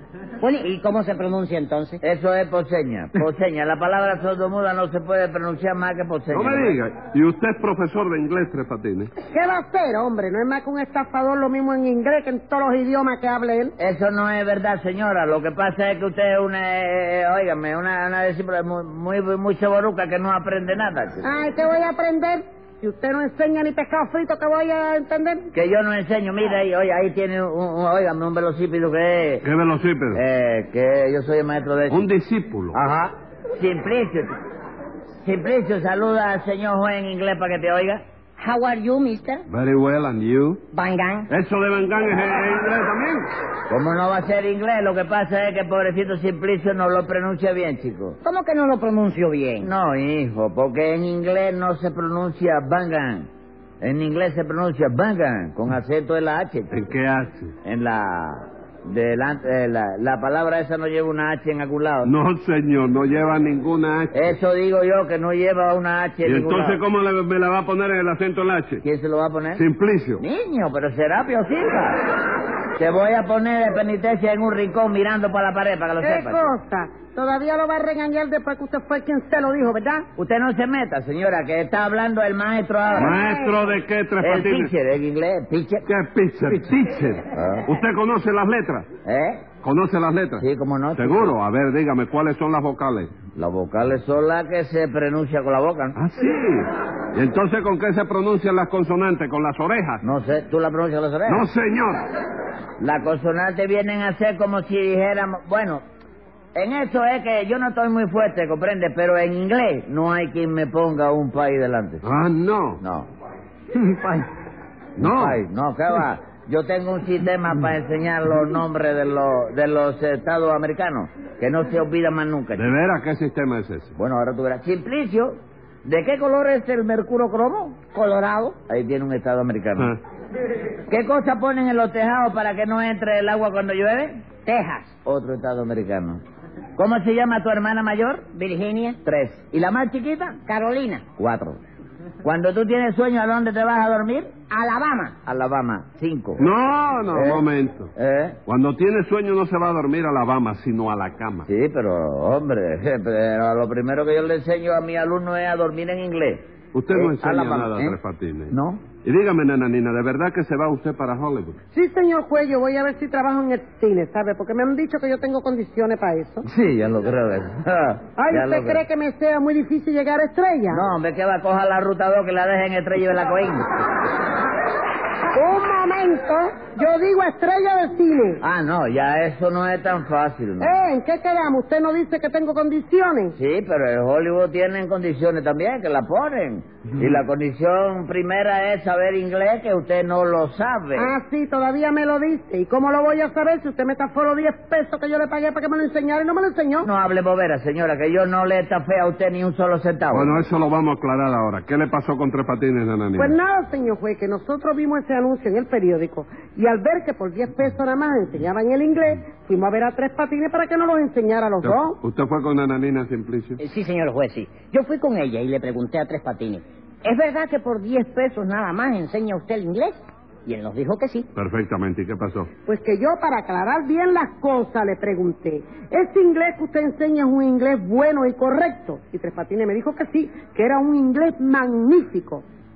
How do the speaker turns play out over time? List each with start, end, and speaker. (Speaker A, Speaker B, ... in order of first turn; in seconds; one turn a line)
Speaker A: 0.4-2.0
Speaker B: 2.0-6.8
Speaker C: 6.3-9.1
Speaker D: 9.2-13.8
Speaker B: 13.8-21.3
Speaker D: 21.2-25.5
Speaker B: 25.5-29.4
Speaker C: 29.4-30.2
Speaker B: 30.1-32.0
Speaker C: 31.9-32.8
Speaker B: 32.7-34.3
Speaker B: 35.2-38.0
Speaker A: 38.4-39.4
Speaker C: 39.5-40.6
Speaker A: 40.7-41.3
Speaker C: 41.3-43.3
Speaker B: 43.7-48.2
Speaker A: 48.2-49.7
Speaker B: 49.6-53.3
Speaker B: 53.8-56.8
Speaker C: 56.7-57.5
Speaker B: 57.6-62.1
Speaker C: 62.0-64.4
Speaker B: 64.1-66.8
Speaker C: 66.2-68.8
Speaker B: 68.8-69.6
Speaker C: 69.5-70.2
Speaker B: 70.2-72.0
Speaker B: 72.8-76.5
Speaker D: 76.0-80.1
Speaker B: 80.2-83.2
Speaker C: 83.0-84.7
Speaker D: 83.1-83.6
Speaker B: 84.2-85.8
Speaker C: 85.9-88.9
Speaker B: 87.3-87.7
Speaker B: 89.0-89.5
Speaker C: 89.6-93.1
Speaker B: 90.4-91.3
Speaker B: 93.3-96.0
Speaker C: 96.0-100.0
Speaker B: 100.0-101.5
Speaker C: 101.2-102.0
Speaker B: 102.8-105.8
Speaker B: 106.5-112.0
Speaker C: 112.0-112.8
Speaker B: 112.8-113.1
Speaker C: 113.9-114.2
Speaker B: 115.0-122.7
Speaker C: 115.0-115.4
Speaker C: 122.5-124.0
Speaker B: 124.0-127.8
Speaker A: 127.9-128.6
Speaker B: 128.7-129.9
Speaker B: 130.9-134.2
Speaker A: 134.5-134.9
Speaker B: 135.0-136.2
Speaker B: 136.8-138.3
Speaker A: 138.3-139.0
Speaker B: 139.0-140.4
Speaker A: 140.5-141.0
Speaker B: 141.2-141.6
Speaker B: 142.2-144.3
Speaker A: 144.5-145.1
Speaker B: 145.2-146.4
Speaker C: 146.4-147.9
Speaker B: 147.1-148.4
Speaker C: 148.5-151.5
Speaker B: 151.5-158.0
Speaker C: 156.7-161.6
Speaker B: 158.5-158.9
Speaker D: 161.7-166.4
Speaker B: 166.4-168.8
Speaker D: 168.2-170.8
Speaker B: 170.7-173.7
Speaker D: 175.3-178.4
Speaker B: 178.4-180.7
Speaker D: 180.6-183.4
Speaker B: 183.4-191.1
Speaker D: 191.0-196.9
Speaker B: 196.8-200.4
Speaker C: 200.1-203.4
Speaker D: 203.2-212.0
Speaker C: 211.6-213.6
Speaker A: 213.6-221.3
Speaker C: 221.3-222.5
Speaker D: 222.7-232.4